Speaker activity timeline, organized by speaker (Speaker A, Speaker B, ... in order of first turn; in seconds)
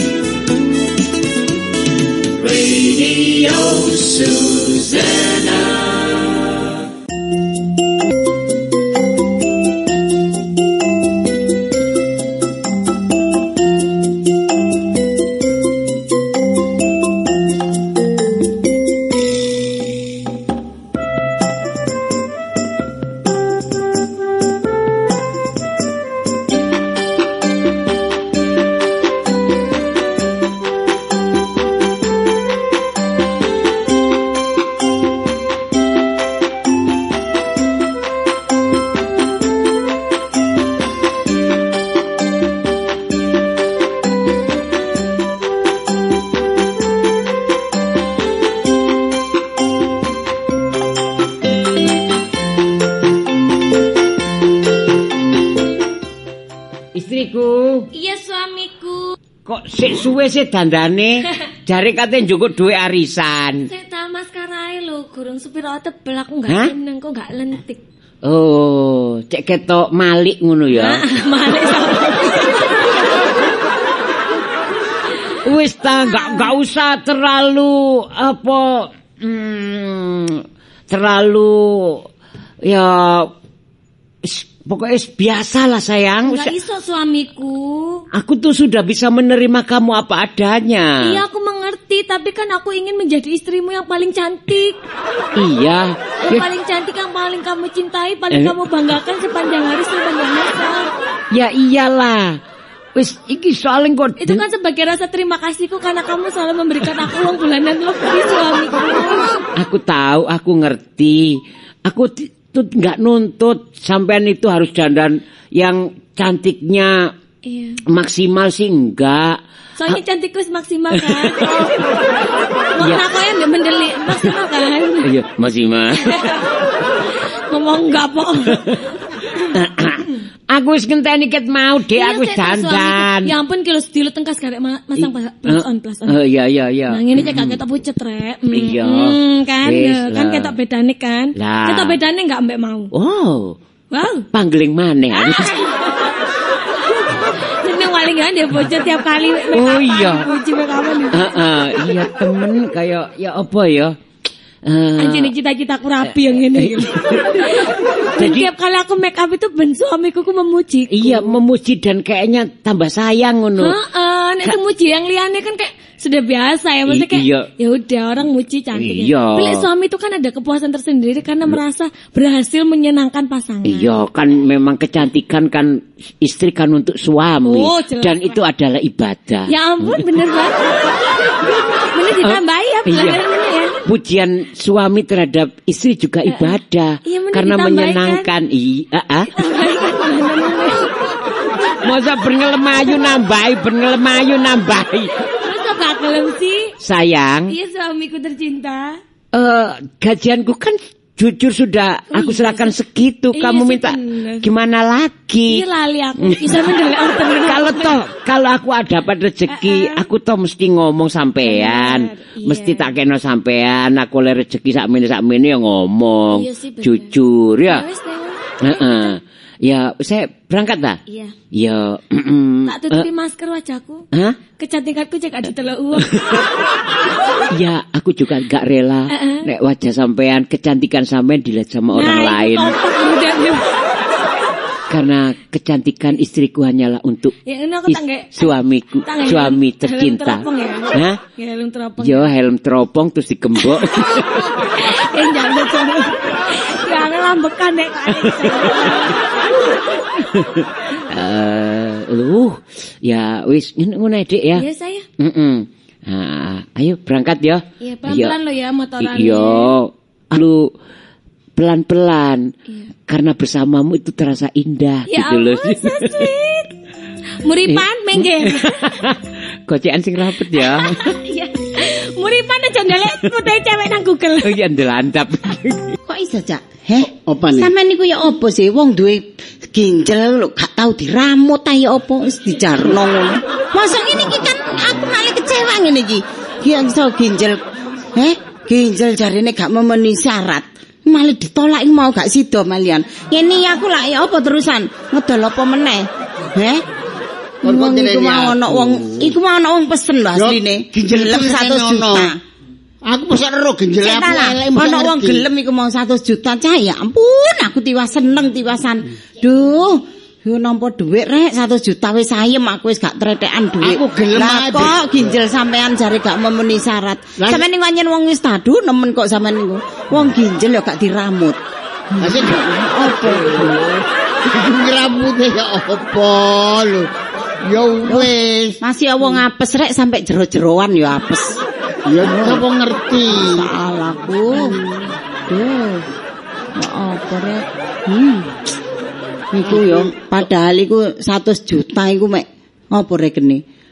Speaker A: 2.4-5.8, 56.9-57.9, 59.5-63.7, 68.2-71.0, 75.5-82.0, 82.7-83.3, 84.2-86.5, 88.1-91.2, 95.4-96.5, 101.3-102.4, 103.0-104.4, 109.6-117.1, 117.9-119.4, 120.9-121.7, 125.0-126.4, 129.5-133.3, 135.0-137.6, 138.5-140.5, 141.4-142.0, 142.9-143.6, 144.3-145.5, 149.5-150.3, 151.1-153.9, 154.7-155.3, 156.1-157.6, 158.2-158.5, 160.9-163.8, 166.9-167.5, 168.8-169.7, 173.7-180.0, 182.2-183.2, 183.8-189.3, 191.8-195.1, 196.8-197.5, 199.3-205.6, 206.2-206.8, 207.4-217.8, 218.6-221.0, 221.5-223.1, 224.1-224.4, 226.0-226.4, 227.5-232.8, 234.9-237.3, 237.9-241.2, 242.0-244.5, 248.3-248.6, 250.3-254.7, 255.2-258.4, 259.0-260.7, 261.6-262.5, 263.1-266.3, 267.7-271.1, 274.4-276.0
Speaker B: 57.9-59.2, 63.7-67.8, 70.7-72.8, 75.9-76.5, 86.2-88.0, 91.0-94.8, 96.3-100.9, 104.2-109.4, 117.5-117.8, 119.8-121.9, 122.8-125.1, 125.9-126.5, 127.5-128.8, 131.9-136.2, 136.9-142.9, 143.9-144.3, 145.1-146.1, 146.9-151.4, 155.0-161.4, 163.6-173.9, 177.5-178.4, 179.5-180.9, 181.8-183.8, 186.3-188.3, 189.3-190.9, 195.4-196.7, 197.5-199.0, 202.1-202.7, 203.3-204.5, 205.5-208.0, 209.5-210.0, 211.4-212.9, 216.3-217.1, 217.7-219.2, 221.1-221.3, 222.7-224.1, 224.6-226.2, 229.1-229.5, 231.9-233.7, 237.4-242.3, 243.6-249.2, 254.6-255.1, 257.8-259.7, 265.1-266.7, 267.4-269.0, 270.5-274.6
Speaker C: 276.1-287.6, 288.1-296.8, 297.6-302.4, 304.0-321.6, 322.1-323.8, 328.1-328.3, 328.8-331.6, 332.2-332.6, 333.3-334.8, 335.5-336.1, 336.8-338.5, 339.5-343.6
Speaker D: 277.0-277.7, 297.6-299.4, 300.4-302.4, 303.1-305.4, 313.8-315.4, 317.4-317.6, 322.2-327.1, 327.6-328.8, 332.1-333.7, 334.6-335.1, 339.6-340.1